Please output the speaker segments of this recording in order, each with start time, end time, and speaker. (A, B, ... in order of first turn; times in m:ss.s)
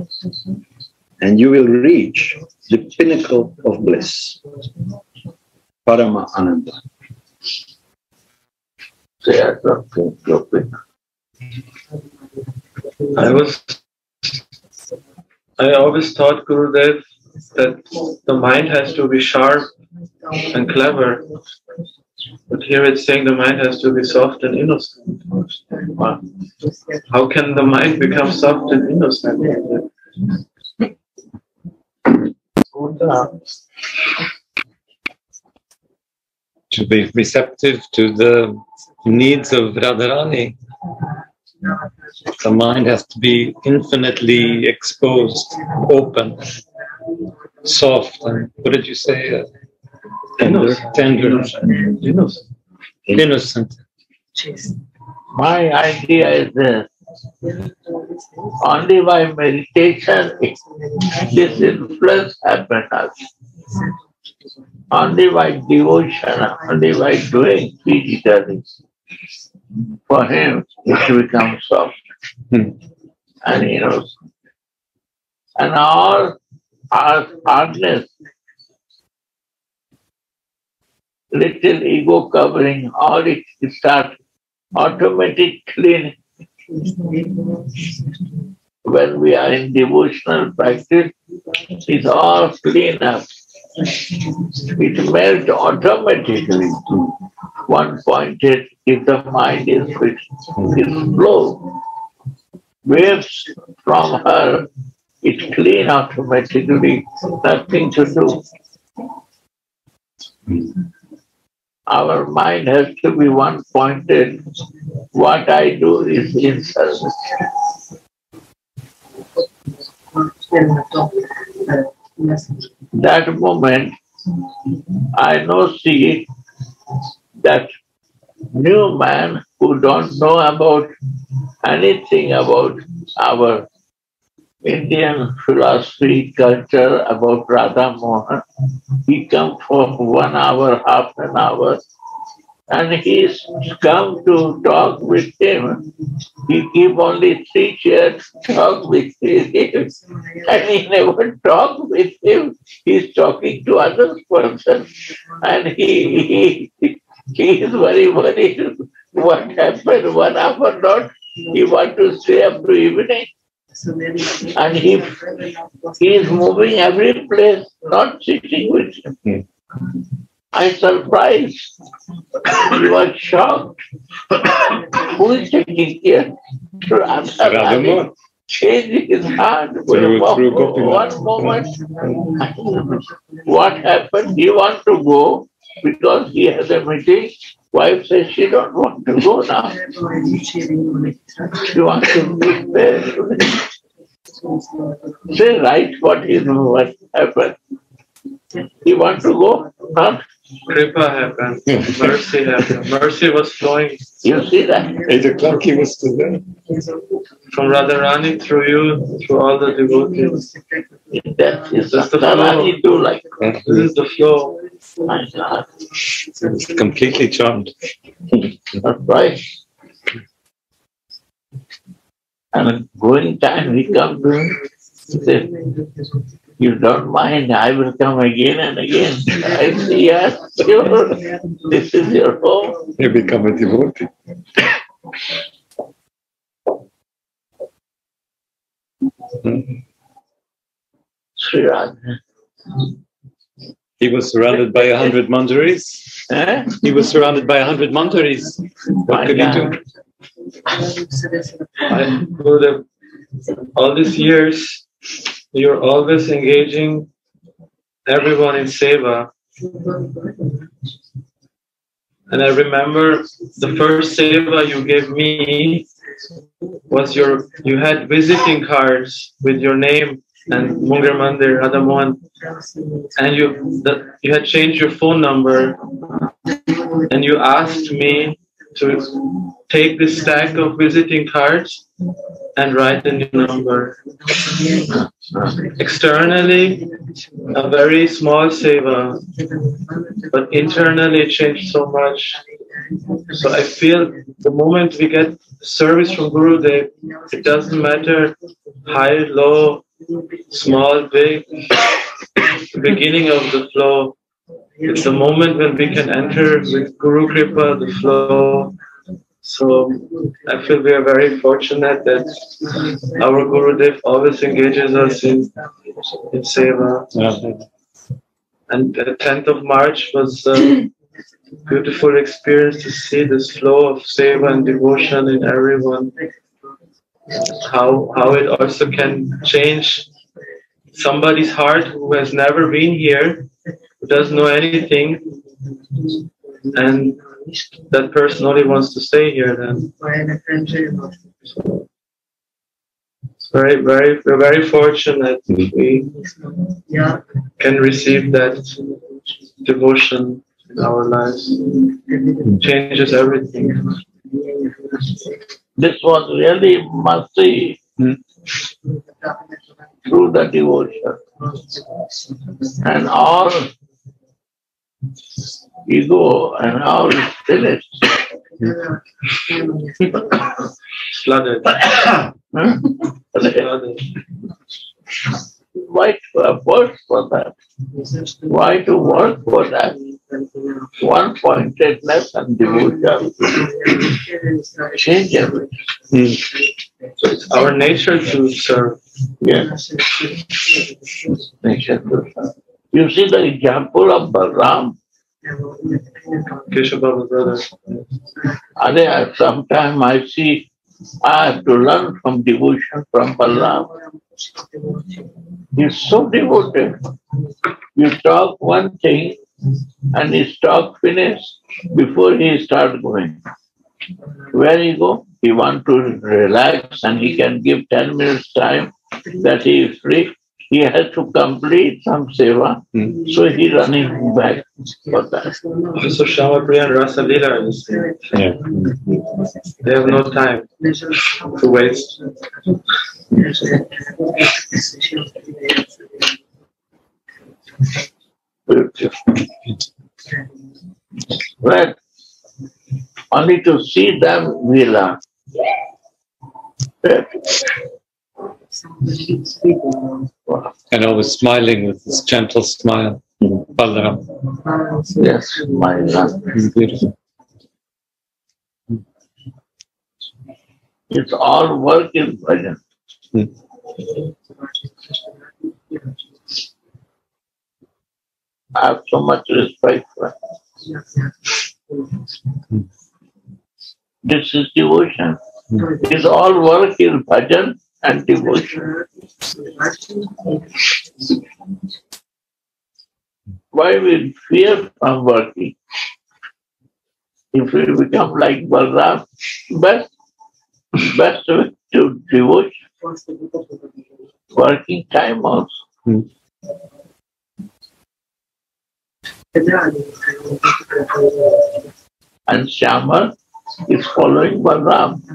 0:01.2-0:04.4 A
0:05.9-0:06.8 A
0:09.2-0:10.8 B
0:13.1-0:13.8 C
0:15.6-0:17.0 C
0:17.6-0:19.7 C
0:20.5-0:21.3 C
0:22.5-0:25.0 C
0:27.1-0:29.9 C
0:32.7-0:33.4 B
0:36.7-0:40.6 D
0:42.4-0:46.5 D
0:47.6-0:49.5 D
0:50.4-0:51.9 D
0:50.4-0:50.8 A
0:53.1-0:53.8 D
0:55.3-0:56.9 B
0:58.6-1:00.6 B
1:01.1-1:03.1 B
1:04.9-1:08.8 B
1:10.1-1:11.9 B
1:13.4-1:14.1 B
1:15.6-1:16.4 B
1:16.9-1:18.1 B
1:21.3-1:24.1 B
1:24.8-1:26.1 B
1:28.8-1:31.1 B
1:31.8-1:33.3 B
1:34.7-1:36.9 B
1:37.7-1:41.7 B
1:42.8-1:44.7 B
1:45.2-1:48.4 B
1:51.9-1:54.5 B
1:55.1-1:57.3 B
2:02.9-2:04.0 B
2:05.1-2:06.3 B
2:07.4-2:07.7 B
2:08.5-2:10.9 B
2:11.6-2:13.7 B
2:14.6-2:18.4 B
2:19.1-2:21.8 B
2:22.7-2:25.9 B
2:26.4-2:34.9 B
2:35.4-2:43.3 B
2:44.4-2:45.2 B
2:46.0-2:49.2 B
2:50.5-2:51.7 B
2:52.4-2:53.8 B
2:54.3-3:09.8 B
2:57.4-2:58.1 D
2:59.9-3:01.6 D
3:11.5-3:13.6 B
3:15.3-3:17.6 B
3:18.8-3:20.2 B
3:20.7-3:24.0 C
3:24.2-3:25.1 B
3:25.1-3:26.4 D
3:27.5-3:30.5 C
3:31.1-3:33.2 B
3:31.9-3:32.8 C
3:33.4-3:33.8 D
3:33.6-3:34.6 C
3:35.1-3:35.7 B
3:36.5-3:37.7 D
3:38.8-3:39.4 B
3:42.5-3:45.5 B
3:46.6-3:52.9 B
3:53.0-3:54.1 D
4:01.4-4:02.2 B
4:04.0-4:06.2 D
4:06.3-4:06.7 B
4:06.8-4:09.8 D
4:09.1-4:09.8 B
4:11.9-4:12.8 C
4:13.8-4:14.8 C
4:15.5-4:17.1 C
4:18.1-4:19.3 C
4:22.3-4:25.9 C
4:26.9-4:32.2 C
4:33.2-4:35.8 C
4:37.1-4:41.8 C
4:42.6-4:44.0 C
4:45.8-4:46.9 C
4:47.5-4:49.2 C
4:50.3-4:52.4 C
4:53.3-4:58.4 C
4:58.9-4:59.8 C
5:00.5-5:01.6 C
5:02.7-5:04.2 C
5:04.8-5:08.8 C
5:09.4-5:12.4 C
5:13.1-5:15.5 C
5:16.3-5:17.1 C
5:17.1-5:17.6 D
5:18.7-5:20.9 C
5:21.7-5:26.2 C
5:27.5-5:30.1 C
5:30.9-5:33.5 C
5:34.0-5:35.2 C
5:36.7-5:37.2 C
5:37.9-5:39.9 C
5:43.5-5:46.2 C
5:47.6-5:48.7 C
5:49.6-5:51.7 C
5:52.6-5:54.0 C
5:55.8-5:57.8 B
6:00.1-6:01.2 B
6:02.8-6:03.7 B
6:05.9-6:08.1 B
6:11.2-6:12.2 C
6:12.5-6:13.7 B
6:13.4-6:14.0 C
6:15.8-6:17.5 B
6:18.5-6:20.0 B
6:21.0-6:24.2 B
6:24.9-6:25.7 B
6:26.1-6:26.4 D
6:27.4-6:29.0 C
6:29.4-6:29.8 B
6:31.6-6:35.0 B
6:36.7-6:38.0 C
6:38.8-6:40.7 B
6:41.2-6:43.9 B
6:45.8-6:47.0 B
6:48.0-6:49.4 B
6:50.1-6:53.4 B
6:54.5-7:05.6 B
7:06.0-7:08.0 C
7:08.3-7:08.7 D
7:09.8-7:10.7 C
7:11.4-7:12.2 C
7:18.7-7:19.4 B
7:21.6-7:22.0 B
7:23.3-7:25.2 B
7:27.0-7:27.7 B
7:30.9-7:34.3 D
7:35.2-7:36.6 B
7:36.6-7:37.1 D
7:41.1-7:42.8 B
7:48.8-7:50.3 B
7:54.2-7:58.9 B
8:03.7-8:05.8 B
8:07.5-8:10.1 B
8:11.0-8:12.7 B
8:14.5-8:15.7 B
8:22.5-8:23.3 B
8:23.9-8:25.2 B